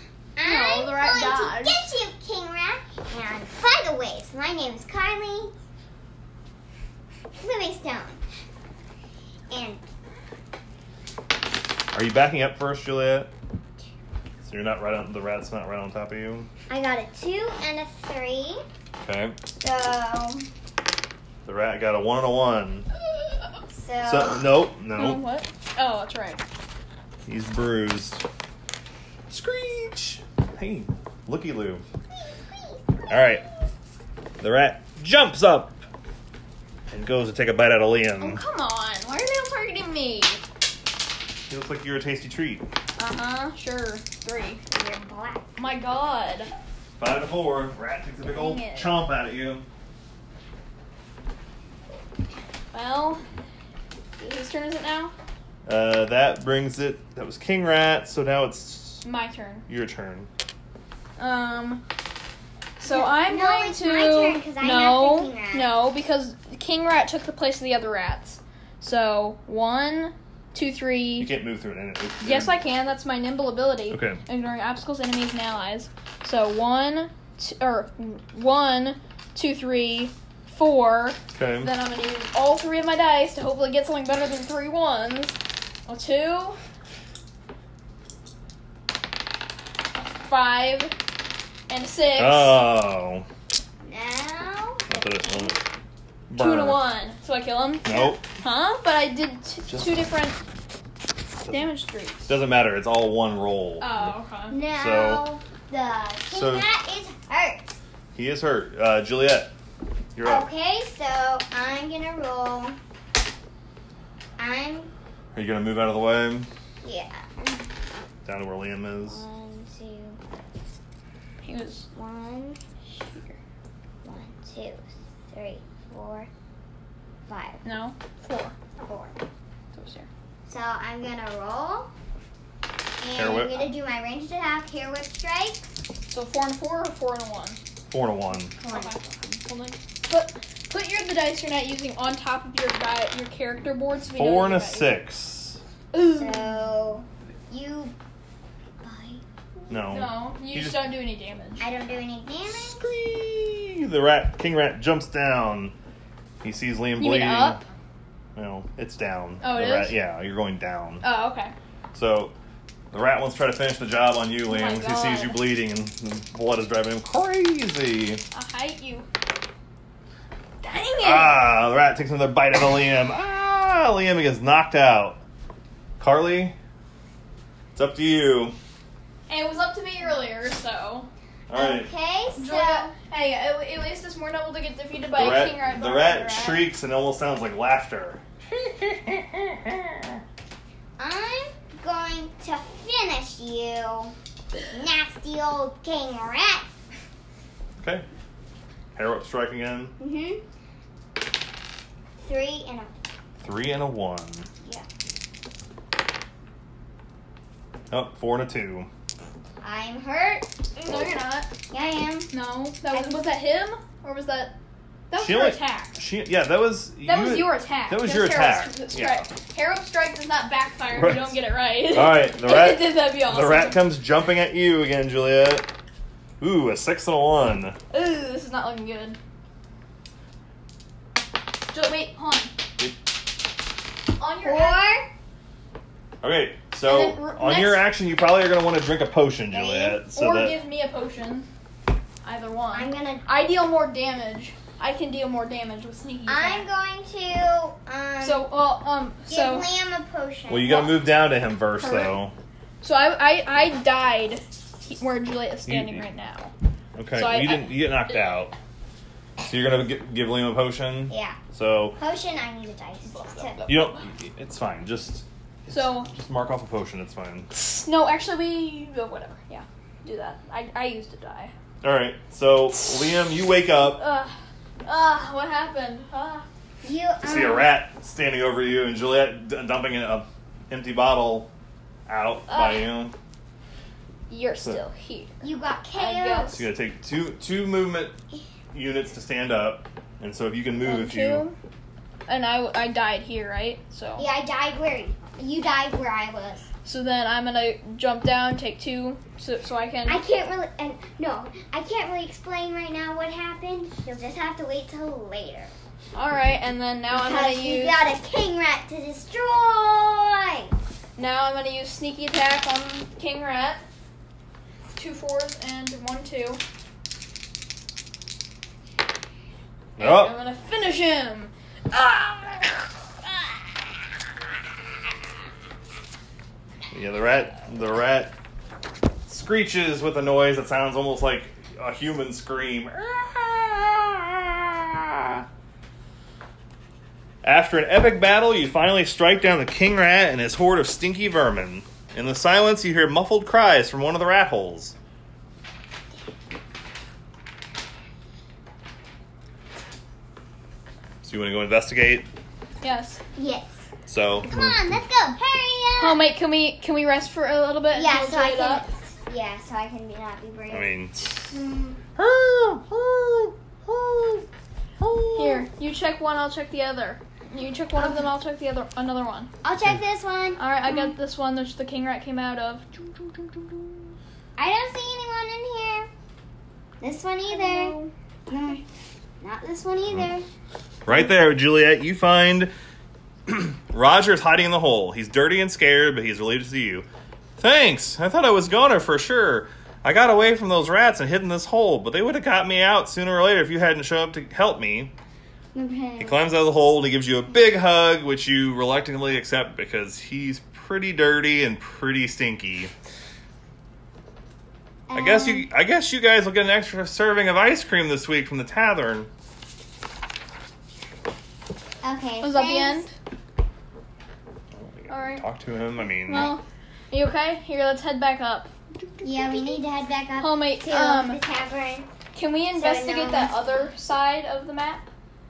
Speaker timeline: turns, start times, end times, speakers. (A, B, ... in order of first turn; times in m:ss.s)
0:00.4-0:05.5 A
0:00.4-0:01.9 B
0:07.3-0:08.2 A
0:09.5-0:09.8 A
0:11.9-0:13.3 C
0:14.4-0:16.5 C
0:16.7-0:18.7 A
0:19.0-0:19.4 C
0:19.6-0:20.5 A
0:21.4-0:22.9 C
0:23.7-0:24.5 A
0:24.0-0:25.2 C
0:25.0-0:26.4 B
0:27.3-0:28.2 C
0:29.3-0:31.8 C
0:32.2-0:33.1 A
0:33.1-0:33.4 C
0:34.4-0:35.9 C
0:36.9-0:38.4 C
0:38.2-0:40.4 B
0:41.5-0:42.7 C
0:43.0-0:44.6 B
0:44.7-0:45.5 A
0:45.6-0:46.5 B
0:47.0-0:49.7 C
0:48.3-0:49.0 B
0:52.7-0:53.2 B
0:54.2-0:55.1 B
0:55.6-0:59.0 C
0:59.0-0:59.7 B
0:59.7-1:00.3 C
1:01.2-1:01.8 B
1:02.8-1:11.3 B
1:02.9-1:05.7 A
1:11.2-1:12.6 C
1:12.2-1:26.6 B
1:13.9-1:14.2 C
1:21.4-1:21.7 C
1:30.0-1:31.0 B
1:31.7-1:32.6 B
1:32.2-1:33.3 C
1:33.8-1:35.5 A
1:34.9-1:35.6 C
1:36.3-1:36.8 C
1:36.4-1:40.4 B
1:37.8-1:38.2 C
1:39.7-1:40.0 C
1:41.4-1:41.7 C
1:41.5-1:42.3 B
1:42.3-1:44.1 C
1:43.8-1:44.6 B
1:44.5-1:47.7 A
1:44.7-1:45.3 C
1:46.3-1:46.7 C
1:48.2-1:49.5 C
1:50.2-1:50.5 C
1:50.2-1:52.8 A
1:54.4-1:54.9 A
1:55.3-1:56.5 C
1:56.8-1:57.7 A
1:58.3-1:59.2 C
1:59.0-2:00.2 A
2:01.4-2:01.9 B
2:01.9-2:02.6 A
2:02.9-2:03.4 B
2:04.0-2:06.3 A
2:07.3-2:07.6 A
2:07.6-2:08.6 B
2:08.8-2:09.2 A
2:09.7-2:10.1 B
2:10.5-2:11.9 A
2:13.0-2:15.8 A
2:13.2-2:13.7 C
2:16.1-2:17.6 B
2:17.9-2:18.6 C
2:18.6-2:19.3 A
2:18.7-2:25.0 B
2:24.1-2:25.6 C
2:25.9-2:26.5 B
2:26.0-2:28.0 A
2:28.8-2:29.7 A
2:29.7-2:30.9 C
2:29.9-2:31.7 B
2:31.6-2:32.8 A
2:32.5-2:35.8 C
2:36.4-2:37.6 C
2:37.0-2:37.6 B
2:38.4-2:41.0 C
2:39.4-2:40.0 B
2:41.0-2:41.5 B
2:41.9-2:42.3 C
2:42.9-2:48.2 C
2:44.5-2:45.4 B
2:48.3-2:49.1 B
2:50.6-2:51.5 B
2:51.0-2:55.2 C
2:56.0-2:56.6 C
2:57.8-2:58.6 C
2:59.3-3:01.1 B
3:01.5-3:01.9 C
3:01.5-3:02.9 A
3:02.4-3:06.7 B
3:05.2-3:10.2 C
3:11.0-3:14.2 A
3:14.7-3:16.7 A
3:17.8-3:18.1 C
3:19.0-3:20.0 C
3:20.0-3:20.4 A
3:22.2-3:22.9 A
3:23.4-3:24.5 C
3:24.6-3:24.9 A
3:27.9-3:28.9 C
3:29.6-3:31.1 A
3:30.8-3:31.5 B
3:31.7-3:32.3 A
3:32.3-3:34.6 B
3:32.9-3:33.2 A
3:35.1-3:36.0 B
3:35.2-3:39.3 C
3:37.0-3:43.8 B
3:40.9-3:45.7 C
3:46.4-3:47.8 C
3:47.9-3:49.2 B
3:51.7-3:52.5 B
3:54.2-3:54.9 B
3:54.4-3:55.1 A
3:56.2-4:00.6 C
3:56.8-3:57.9 B
3:59.5-4:00.0 A
4:00.1-4:01.5 B
4:02.2-4:06.7 B
4:02.7-4:03.3 A
4:06.3-4:08.5 A
4:08.2-4:09.7 B
4:09.3-4:11.0 A
4:10.5-4:12.3 C
4:11.8-4:12.2 B
4:12.8-4:16.5 B
4:15.7-4:16.0 C
4:17.0-4:18.5 C
4:17.1-4:18.4 B
4:19.4-4:22.0 C
4:21.1-4:21.4 A
4:22.0-4:23.6 A
4:23.1-4:24.0 B
4:23.7-4:27.5 C
4:25.7-4:26.1 B
4:27.5-4:31.5 B
4:31.8-4:34.0 C
4:33.8-4:36.5 B
4:36.8-4:37.7 A
4:37.2-4:41.5 C
4:42.1-4:43.2 C
4:42.5-4:42.8 B
4:44.3-4:45.4 B
4:45.4-4:46.6 A
4:45.9-4:46.7 B
4:46.5-4:48.2 C
4:48.7-4:51.5 C
4:50.8-4:51.6 B
4:52.3-4:54.3 B
4:54.2-4:56.7 A
4:56.8-5:00.2 B
5:00.1-5:05.8 A
5:06.1-5:08.0 B
5:07.1-5:10.7 A
5:11.2-5:13.8 B
5:15.0-5:16.6 B
5:20.0-5:20.4 C
5:20.0-5:22.8 B
5:26.9-5:28.3 C
5:29.3-5:35.4 C
5:37.4-5:45.0 C
5:51.2-5:52.3 C
5:52.8-5:53.2 B
5:53.4-5:53.9 A
5:54.1-5:54.8 C
5:54.4-5:56.3 A
5:56.0-5:58.9 B
5:57.9-6:02.0 A
6:00.7-6:01.2 C
6:02.2-6:03.6 C
6:03.9-6:04.2 A
6:04.2-6:04.4 C
6:05.0-6:05.6 C
6:05.3-6:09.5 B
6:08.0-6:08.3 A
6:09.6-6:11.1 A
6:10.6-6:12.9 B
6:14.6-6:16.1 A
6:17.0-6:18.8 A
6:17.5-6:18.1 B
6:19.4-6:20.5 A
6:21.1-6:22.7 C
6:23.5-6:27.1 C
6:27.6-6:35.1 C
6:35.7-6:36.5 A
6:36.2-6:42.9 C
6:45.1-6:45.7 A
6:45.2-6:49.3 C
6:52.0-6:53.1 A
6:52.4-6:53.2 B
6:54.7-6:56.5 C
6:55.1-6:55.4 B
6:56.3-6:58.7 B
6:59.2-6:59.8 B
6:59.2-7:02.1 A
7:00.4-7:01.4 B
7:02.3-7:05.1 B
7:02.7-7:03.6 A